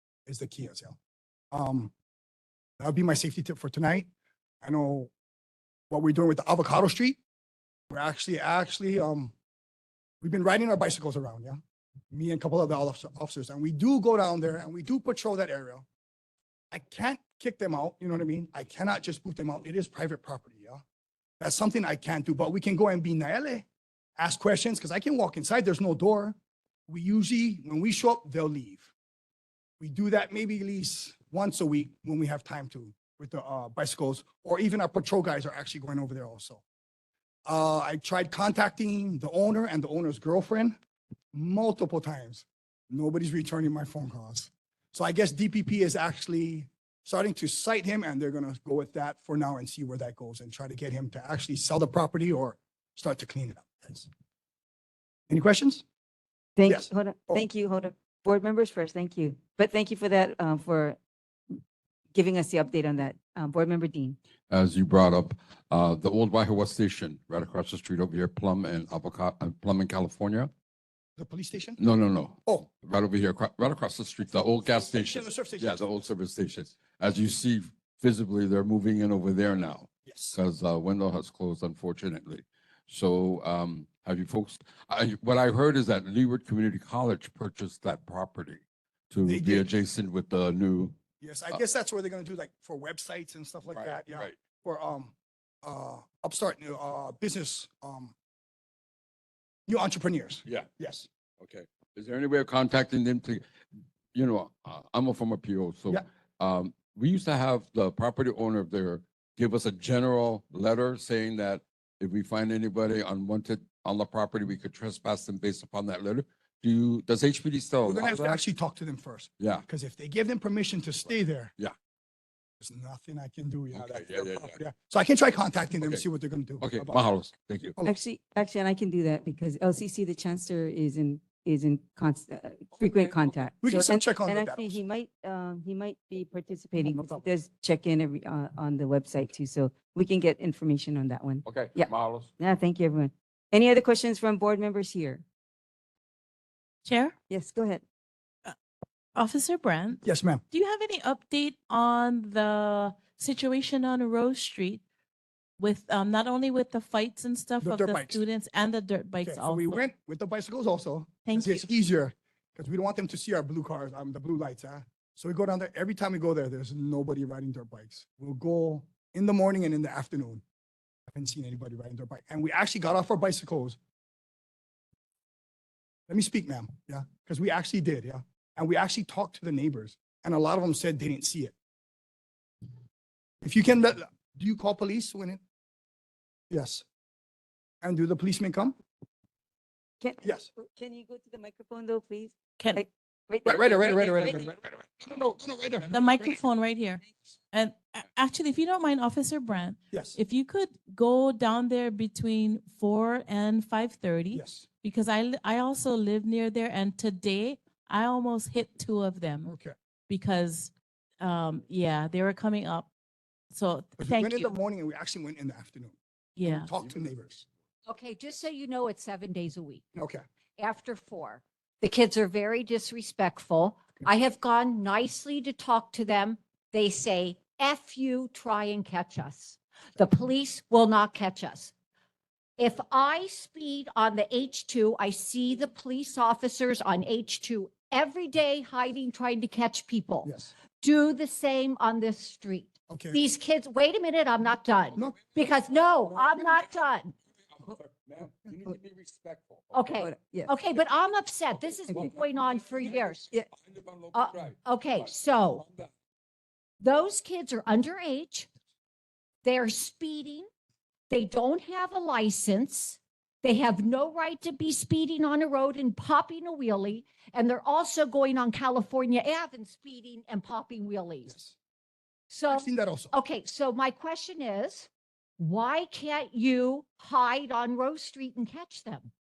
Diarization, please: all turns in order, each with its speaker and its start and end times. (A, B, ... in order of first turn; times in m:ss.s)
0:00.2-0:01.0 A
0:01.5-0:01.9 A
0:02.8-0:04.1 A
0:04.6-0:05.1 A
0:05.9-0:07.2 A
0:07.9-0:09.3 A
0:10.2-0:11.6 A
0:12.1-0:15.8 A
0:16.7-0:20.8 A
0:21.4-0:28.9 A
0:29.8-0:36.6 A
0:37.4-0:40.8 A
0:41.3-0:54.1 A
0:55.3-0:55.8 A
0:56.6-1:01.0 B
0:56.6-0:57.4 A
1:02.1-1:04.2 B
1:04.5-1:10.5 C
1:11.2-1:11.8 A
1:11.8-1:31.0 C
1:14.3-1:16.0 A
1:20.0-1:20.4 A
1:29.2-1:29.7 A
1:31.2-1:35.1 A
1:33.7-1:34.4 C
1:35.6-1:38.1 A
1:39.7-1:41.1 A
1:41.4-1:43.4 C
1:44.1-1:58.4 C
1:57.8-2:01.5 A
1:59.4-1:59.6 C
2:02.6-2:07.0 A
2:03.7-2:04.6 C
2:05.7-2:06.0 C
2:06.6-2:07.7 C
2:07.8-2:25.2 B
2:13.6-2:14.8 A
2:16.8-2:17.2 A
2:21.4-2:22.3 C
2:26.8-2:27.1 D
2:27.3-2:27.8 B
2:29.1-2:34.8 D
2:30.0-2:30.4 A
2:35.6-2:39.8 D
2:37.6-2:38.2 A
2:39.2-2:50.4 A
2:41.2-2:41.6 D
2:51.1-2:53.8 A
2:56.1-3:01.5 A
3:03.4-3:05.4 A
3:06.5-3:06.8 A
3:07.8-3:08.8 A
3:10.0-3:14.4 B
3:10.2-3:10.5 A
3:13.4-3:16.0 A
3:15.9-3:29.5 D
3:19.9-3:20.2 A
3:24.3-3:24.7 A
3:29.4-3:29.7 A
3:30.1-3:32.9 D
3:33.5-3:34.5 D
3:34.0-3:37.5 A
3:36.4-3:36.7 D
3:37.8-3:39.8 E
3:39.9-3:40.2 A
3:40.6-3:51.7 E
3:52.6-4:07.1 E
4:00.2-4:00.5 A
4:02.9-4:03.2 A
4:07.5-4:09.9 C
4:09.7-4:13.3 E
4:09.9-4:10.5 B
4:11.9-4:12.2 B
4:11.9-4:15.9 C
4:14.1-4:15.6 E
4:16.8-4:18.5 E
4:19.4-4:20.5 E
4:21.1-4:31.3 E
4:31.2-4:31.6 A
4:32.3-4:39.1 E
4:32.5-4:33.1 A